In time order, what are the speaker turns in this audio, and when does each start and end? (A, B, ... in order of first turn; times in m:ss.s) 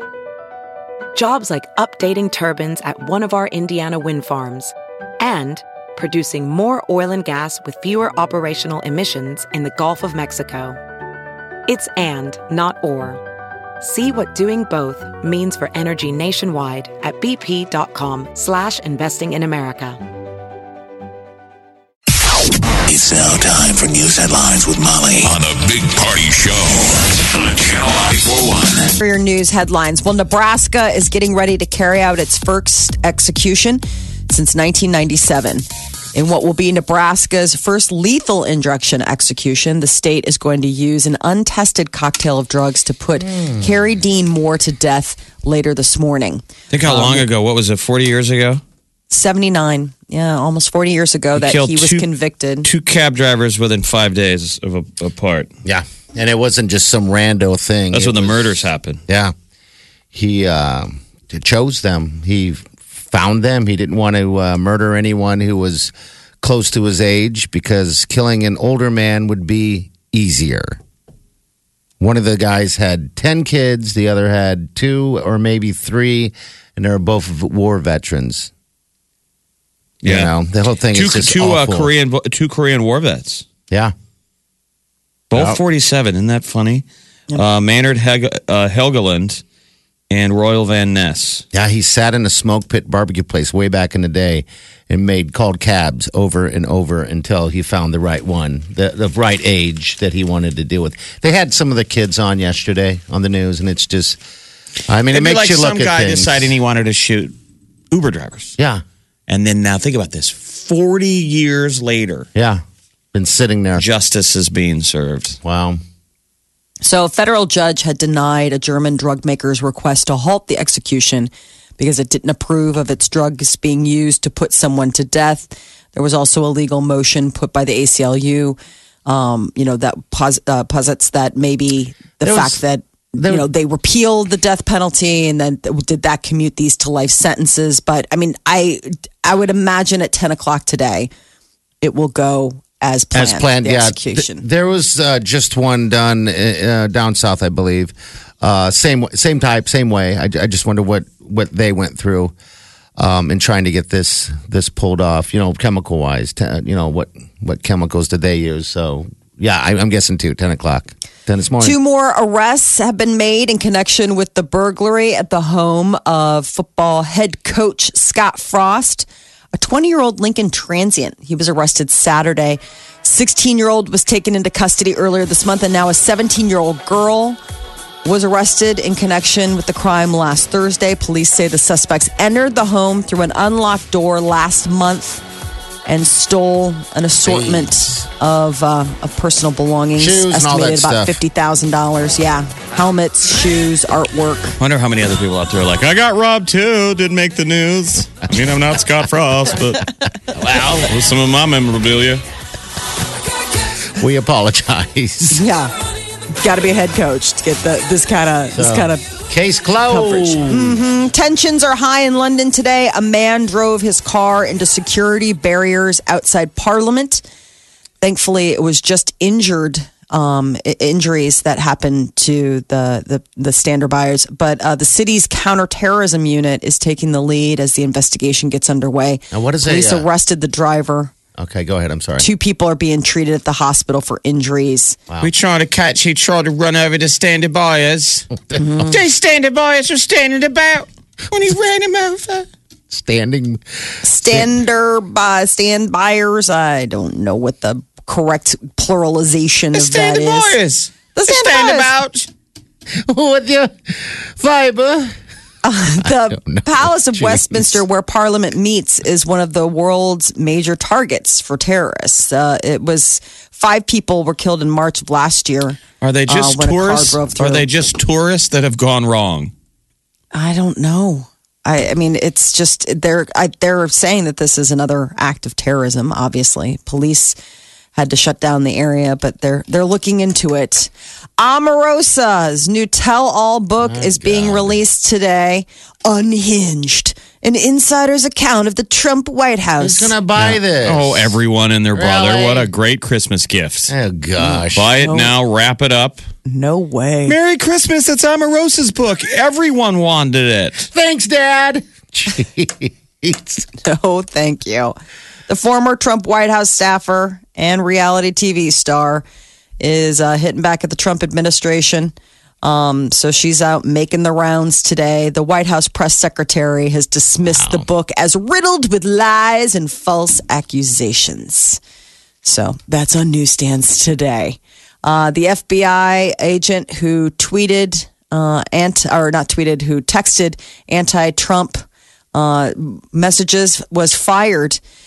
0:01.2-0:10.8 A
0:11.7-0:13.2 A
0:13.8-0:20.0 A
0:22.9-0:29.0 B
0:29.0-0:47.2 C
0:43.3-0:43.7 D
0:46.7-0:48.6 E
0:49.1-0:52.7 C
0:51.4-0:52.1 E
0:52.6-0:55.5 E
0:55.6-0:59.3 D
0:57.9-0:59.0 E
1:00.1-1:10.8 D
1:12.0-1:18.5 D
1:20.0-1:20.3 E
1:20.0-1:21.9 D
1:20.9-1:23.5 E
1:25.3-1:29.4 E
1:25.3-1:25.6 D
1:30.1-1:31.4 E
1:31.5-1:44.2 D
1:44.9-1:46.5 D
1:45.1-1:47.3 E
1:47.9-1:48.6 E
1:48.6-1:48.8 D
1:49.3-1:52.3 E
1:52.4-1:52.6 D
1:53.1-1:53.8 D
1:53.8-1:55.4 E
1:55.4-1:55.8 D
1:56.8-2:21.1 C
2:12.2-2:12.6 D
2:13.2-2:13.5 D
2:21.8-2:24.4 C
2:23.1-2:32.3 D
2:33.0-2:41.8 D
2:41.6-2:57.4 C
2:58.0-3:05.2 C
3:05.9-3:14.6 C
3:07.2-3:08.1 D
3:10.0-3:11.2 D
3:14.6-3:19.9 E
3:20.4-3:20.9 D
3:20.8-3:22.2 E
3:24.0-3:25.4 D
3:25.3-3:25.7 C
3:26.4-3:29.1 C
3:28.5-3:30.8 D
3:29.9-3:37.2 C
3:38.0-3:51.1 C
3:49.3-3:50.1 D
3:51.4-3:52.3 D
3:52.2-3:55.0 C
3:55.2-3:58.3 E
3:58.6-3:59.0 C
3:58.8-4:02.5 E
4:02.9-4:03.6 D
4:04.0-4:10.6 C
4:04.3-4:04.6 D
4:09.7-4:12.3 E
4:11.2-4:11.9 C
4:13.1-4:15.2 D
4:15.6-4:27.8 C
4:16.0-4:17.8 D
4:26.0-4:29.5 E
4:30.3-4:37.4 C
4:38.0-4:50.2 C
4:43.8-4:44.8 D
4:49.8-4:51.4 D
4:50.4-4:53.9 E
4:51.9-4:52.7 D
4:53.9-4:55.0 D
4:54.7-4:56.2 E
4:55.0-4:55.3 C
4:56.5-4:57.4 C
4:57.3-5:00.9 E
5:00.9-5:03.7 D
5:03.8-5:05.0 C
5:05.5-5:09.2 C
5:09.8-5:21.8 C
5:17.5-5:17.9 D
5:22.4-5:34.8 C